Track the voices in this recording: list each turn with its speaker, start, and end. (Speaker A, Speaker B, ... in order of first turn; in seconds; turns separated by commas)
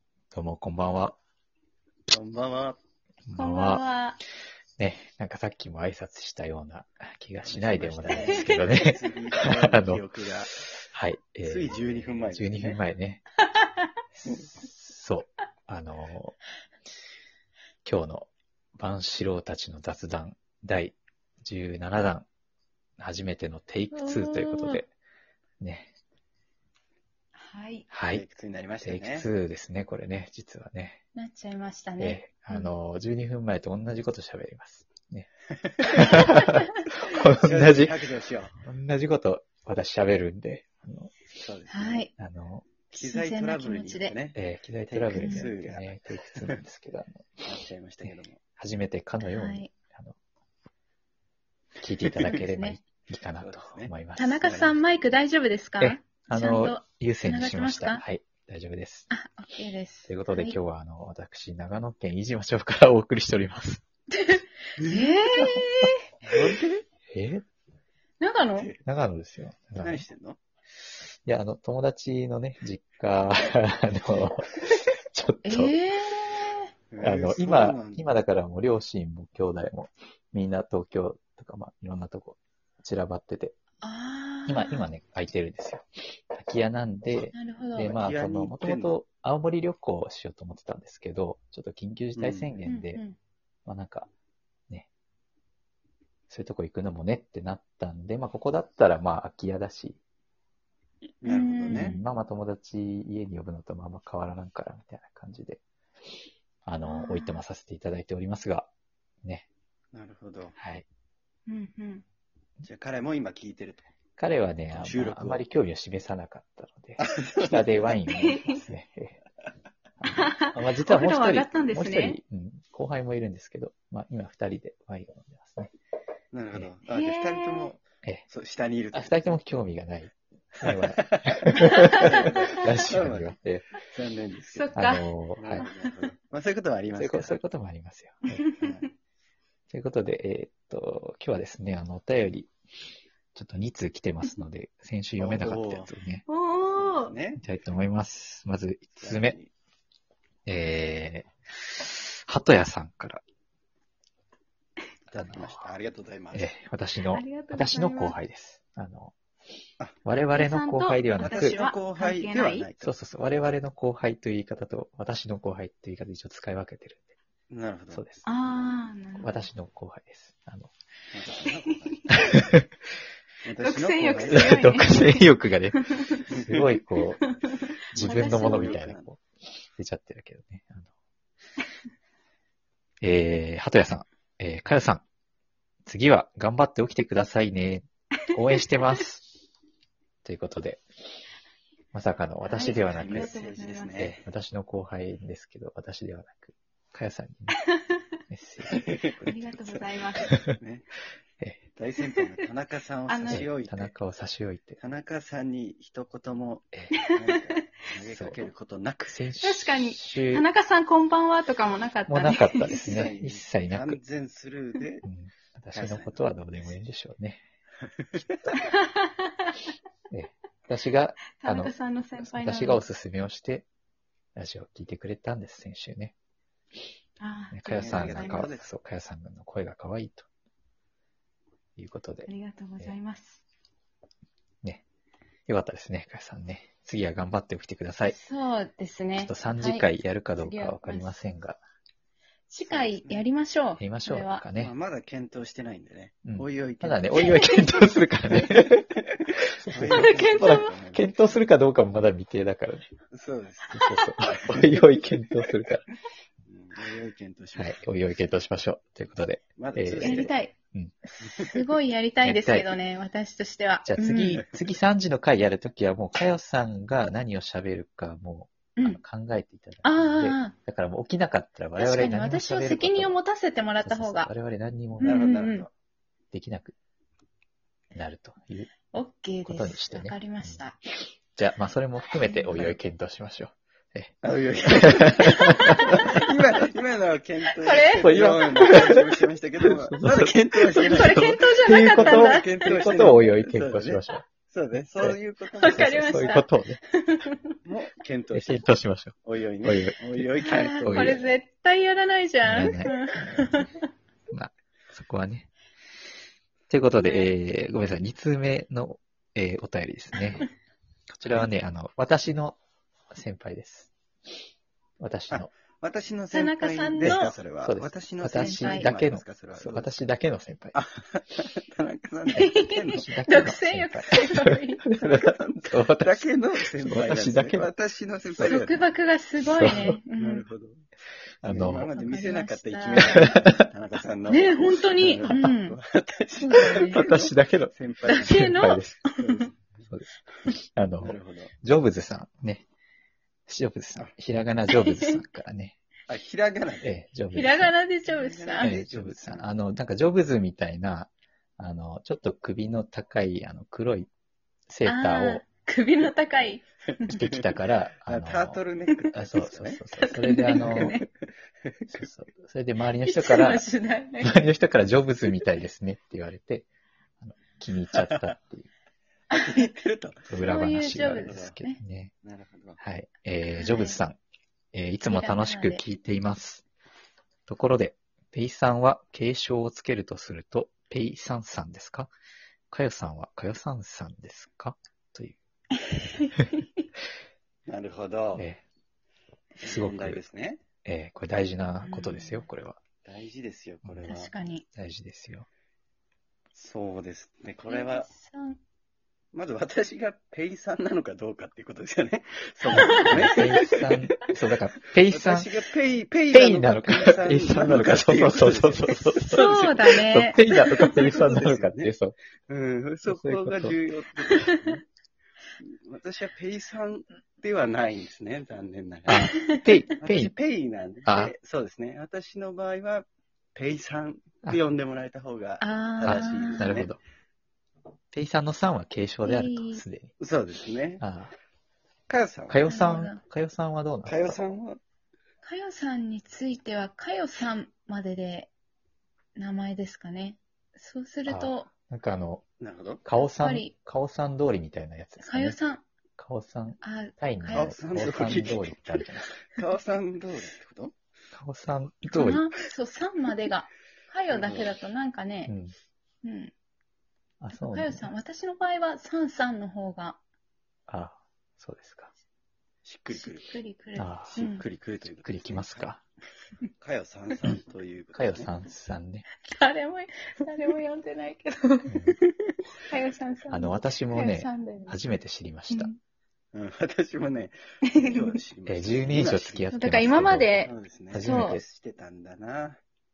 Speaker A: 0.3-1.2, Speaker B: 2.1-2.8, Speaker A: 3.3-3.8, Speaker C: 3.4-4.2, Speaker A: 4.8-10.0, Speaker B: 7.4-10.6, Speaker C: 8.1-8.9, Speaker A: 10.7-13.2, Speaker B: 11.4-12.8, Speaker A: 14.2-16.4, Speaker A: 17.9-22.3, Speaker A: 23.0-24.9, Speaker C: 23.9-24.8, Speaker A: 25.6-25.9, Speaker C: 27.4-27.9, Speaker A: 27.9-28.2, Speaker B: 28.1-29.3, Speaker A: 28.8-31.0, Speaker C: 31.1-32.7, Speaker A: 32.0-38.0, Speaker B: 35.8-36.1, Speaker C: 36.0-36.7, Speaker B: 37.2-38.5, Speaker A: 38.6-41.1, Speaker B: 41.4-42.1, Speaker C: 41.7-42.1, Speaker A: 42.2-42.7, Speaker C: 42.9-44.2, Speaker B: 42.9-44.4, Speaker A: 44.4-47.4, Speaker B: 44.9-46.6, Speaker C: 45.1-45.5, Speaker B: 47.4-48.4, Speaker A: 48.0-50.2, Speaker C: 49.2-49.7, Speaker A: 51.8-54.5, Speaker C: 52.2-52.8, Speaker B: 53.4-54.8, Speaker C: 54.2-58.0, Speaker A: 55.8-59.1, Speaker C: 59.1-60.6, Speaker A: 60.1-63.8, Speaker C: 64.1-66.0, Speaker B: 64.8-65.2, Speaker B: 66.2-66.8, Speaker A: 67.1-67.4, Speaker C: 68.2-68.7, Speaker A: 68.8-70.0, Speaker B: 69.8-70.4, Speaker A: 71.3-75.8, Speaker C: 75.5-76.7, Speaker B: 76.9-78.1, Speaker A: 77.0-83.6, Speaker C: 83.8-84.9, Speaker A: 84.5-93.0, Speaker C: 87.3-88.0, Speaker B: 87.9-88.9, Speaker B: 92.2-92.5, Speaker C: 92.7-93.2, Speaker A: 93.7-94.1, Speaker A: 96.3-100.0, Speaker B: 101.2-102.0, Speaker C: 101.2-102.0, Speaker A: 101.7-105.6, Speaker A: 106.7-108.7, Speaker C: 106.8-107.4, Speaker B: 109.9-110.6, Speaker A: 110.6-110.9, Speaker C: 111.5-112.0, Speaker B: 112.6-113.9, Speaker A: 114.2-119.2, Speaker B: 114.7-115.5, Speaker B: 117.0-118.0, Speaker C: 118.0-118.7, Speaker A: 120.0-125.7, Speaker C: 120.1-122.2, Speaker B: 126.3-129.4, Speaker C: 126.9-127.7, Speaker A: 128.9-133.7, Speaker B: 130.6-133.4, Speaker C: 131.6-132.7, Speaker B: 133.9-134.7, Speaker C: 134.5-135.1, Speaker A: 134.8-135.6, Speaker B: 135.4-137.4, Speaker C: 135.6-136.1, Speaker A: 137.0-138.5, Speaker C: 138.3-138.8, Speaker B: 138.6-138.9, Speaker A: 139.7-142.5, Speaker A: 143.3-146.2, Speaker B: 145.2-145.9, Speaker C: 146.3-147.2, Speaker B: 146.7-147.4, Speaker A: 147.4-149.4, Speaker B: 149.0-149.5, Speaker A: 150.5-153.2, Speaker B: 155.1-156.5, Speaker A: 155.1-155.7, Speaker A: 156.3-159.1, Speaker C: 157.0-158.2, Speaker A: 160.1-161.6, Speaker C: 160.3-162.7, Speaker B: 161.2-163.0, Speaker A: 162.8-167.2, Speaker B: 167.5-168.0, Speaker A: 167.9-168.2, Speaker C: 168.2-169.5, Speaker A: 169.2-170.7, Speaker B: 171.1-172.3, Speaker C: 171.7-171.9, Speaker A: 172.2-172.7, Speaker B: 173.4-174.8, Speaker C: 173.6-176.2, Speaker A: 174.3-177.2, Speaker B: 176.3-176.6, Speaker C: 177.0-178.8, Speaker A: 177.9-179.2, Speaker B: 178.0-179.1, Speaker A: 179.8-180.9, Speaker A: 183.0-185.0, Speaker A: 185.9-189.3, Speaker A: 190.2-190.8, Speaker A: 191.9-193.4, Speaker C: 192.4-194.2, Speaker B: 192.6-194.2, Speaker A: 194.0-197.6, Speaker C: 197.6-198.0, Speaker A: 198.3-199.3, Speaker B: 198.7-199.8, Speaker C: 199.2-200.4, Speaker B: 200.4-200.9, Speaker B: 201.8-203.9, Speaker C: 203.1-203.4, Speaker A: 203.3-204.8, Speaker B: 204.8-209.2, Speaker C: 206.9-207.7, Speaker A: 208.1-208.4, Speaker A: 209.1-210.5, Speaker C: 209.4-213.1, Speaker A: 212.1-214.0, Speaker B: 212.7-215.1, Speaker A: 215.1-217.4, Speaker B: 215.7-216.3, Speaker B: 217.8-218.4, Speaker C: 218.5-219.6, Speaker A: 220.1-223.7, Speaker C: 221.4-222.8, Speaker A: 224.4-226.2, Speaker C: 227.2-228.5, Speaker A: 227.5-230.3, Speaker B: 227.8-228.7, Speaker A: 231.8-233.0, Speaker C: 232.3-233.4, Speaker A: 235.5-238.2, Speaker C: 238.1-241.2, Speaker A: 239.2-241.6, Speaker C: 242.5-244.4, Speaker B: 242.7-243.2, Speaker A: 243.8-244.7, Speaker B: 244.6-247.3, Speaker A: 246.2-249.0, Speaker C: 247.2-247.8, Speaker A: 249.6-252.9, Speaker B: 249.7-251.1, Speaker C: 249.9-250.7, Speaker B: 253.1-255.2, Speaker A: 253.7-255.8, Speaker C: 253.8-254.1, Speaker B: 256.5-257.8, Speaker A: 257.6-260.9, Speaker B: 259.6-260.4, Speaker C: 260.0-260.6, Speaker C: 261.1-264.4, Speaker B: 261.2-261.6, Speaker A: 262.2-262.7, Speaker A: 263.9-273.1, Speaker C: 269.8-270.5, Speaker C: 271.8-274.3, Speaker A: 273.8-275.5, Speaker C: 275.0-275.7, Speaker B: 275.0-275.7, Speaker A: 276.3-276.7, Speaker A: 277.9-278.7, Speaker C: 278.9-280.8, Speaker A: 279.4-280.6, Speaker A: 281.4-286.0, Speaker C: 282.1-282.6, Speaker B: 284.2-296.4, Speaker C: 285.4-286.2, Speaker C: 287.6-288.3, Speaker A: 288.0-289.0, Speaker A: 289.9-294.2, Speaker C: 290.8-292.7, Speaker C: 295.6-297.6, Speaker A: 295.7-296.8, Speaker B: 297.6-298.7, Speaker A: 298.3-301.2, Speaker B: 299.2-301.3, Speaker C: 300.4-303.8, Speaker A: 302.4-303.4, Speaker A: 304.3-305.5, Speaker A: 306.7-310.5, Speaker C: 307.0-307.3, Speaker C: 310.2-310.4, Speaker A: 311.1-312.6, Speaker A: 313.1-313.9, Speaker A: 315.0-315.5, Speaker B: 315.3-319.9, Speaker C: 316.3-317.4, Speaker A: 317.0-320.8, Speaker C: 318.3-318.9, Speaker B: 320.7-323.1, Speaker C: 322.4-324.9, Speaker A: 322.9-326.3, Speaker B: 325.0-328.8, Speaker A: 326.8-327.7, Speaker C: 328.4-330.5, Speaker A: 329.4-330.0, Speaker B: 330.2-330.9, Speaker A: 331.4-331.9, Speaker B: 331.4-338.7, Speaker C: 331.6-333.4, Speaker A: 333.0-333.5, Speaker C: 334.3-335.8, Speaker C: 336.4-337.1, Speaker A: 336.6-339.0, Speaker C: 338.1-339.5, Speaker B: 339.2-339.8, Speaker A: 339.9-342.6, Speaker B: 341.0-341.5, Speaker A: 343.5-345.8, Speaker C: 344.7-345.2, Speaker B: 346.1-346.9, Speaker A: 346.8-347.7, Speaker C: 347.3-348.8, Speaker B: 348.1-349.5, Speaker A: 348.6-354.1, Speaker A: 354.7-355.4, Speaker C: 354.9-357.3, Speaker A: 357.1-358.6, Speaker B: 358.1-359.8, Speaker A: 359.1-361.0, Speaker C: 359.9-361.1, Speaker B: 360.6-361.1, Speaker B: 361.6-361.9, Speaker A: 361.9-363.7, Speaker C: 363.0-364.5, Speaker A: 364.2-366.7, Speaker A: 367.2-368.7, Speaker B: 367.9-368.2, Speaker B: 369.3-370.4, Speaker C: 369.3-369.7, Speaker A: 370.3-372.1, Speaker C: 370.4-371.8, Speaker B: 371.2-371.5, Speaker B: 372.2-372.8, Speaker A: 372.8-374.2, Speaker C: 373.5-374.0, Speaker A: 374.7-376.6, Speaker C: 375.0-375.8, Speaker A: 377.5-382.1, Speaker A: 382.7-385.4, Speaker C: 385.9-386.6, Speaker B: 387.7-388.5, Speaker A: 388.4-388.6, Speaker B: 389.6-390.6, Speaker A: 389.6-390.2, Speaker A: 390.9-392.8, Speaker C: 391.8-392.5, Speaker B: 393.1-394.3, Speaker C: 394.1-394.6, Speaker A: 394.7-395.5, Speaker B: 396.6-398.1, Speaker C: 397.7-398.6, Speaker B: 399.3-403.8, Speaker A: 402.7-405.5, Speaker C: 402.7-403.5, Speaker B: 405.1-409.5, Speaker A: 406.3-412.2, Speaker C: 409.2-411.0, Speaker B: 410.5-411.9, Speaker B: 412.5-414.8, Speaker A: 413.1-413.8, Speaker B: 415.6-419.5, Speaker A: 419.1-420.3, Speaker C: 419.1-419.8, Speaker B: 420.0-426.9, Speaker A: 421.1-421.3, Speaker C: 425.6-426.8, Speaker A: 426.0-427.0, Speaker A: 428.1-430.1, Speaker C: 429.2-429.8, Speaker B: 430.2-431.0, Speaker A: 431.0-431.3, Speaker B: 432.1-432.7, Speaker A: 432.5-434.4, Speaker C: 432.6-433.2, Speaker B: 434.1-434.8, Speaker C: 435.4-438.5, Speaker C: 439.4-441.7, Speaker A: 441.3-442.4, Speaker B: 442.6-443.0, Speaker A: 443.1-445.6, Speaker C: 443.2-443.7, Speaker C: 445.2-445.8, Speaker A: 446.2-449.4, Speaker C: 446.8-448.4, Speaker B: 447.5-448.8, Speaker B: 449.5-450.9, Speaker A: 451.3-452.5, Speaker C: 452.1-455.5, Speaker B: 454.3-454.7, Speaker A: 455.5-455.7, Speaker C: 456.2-456.5, Speaker A: 457.4-458.0, Speaker C: 457.6-460.2, Speaker A: 460.9-462.1, Speaker B: 462.8-463.6, Speaker C: 463.1-464.6, Speaker A: 464.0-464.4, Speaker B: 464.3-465.9, Speaker A: 465.2-466.0, Speaker B: 466.8-468.5, Speaker A: 468.1-469.3, Speaker C: 469.4-475.1, Speaker A: 471.9-472.2, Speaker A: 473.5-475.9, Speaker C: 475.7-476.0, Speaker B: 476.5-482.8, Speaker C: 477.9-478.4, Speaker A: 478.7-480.5, Speaker C: 479.7-481.6, Speaker A: 481.1-481.6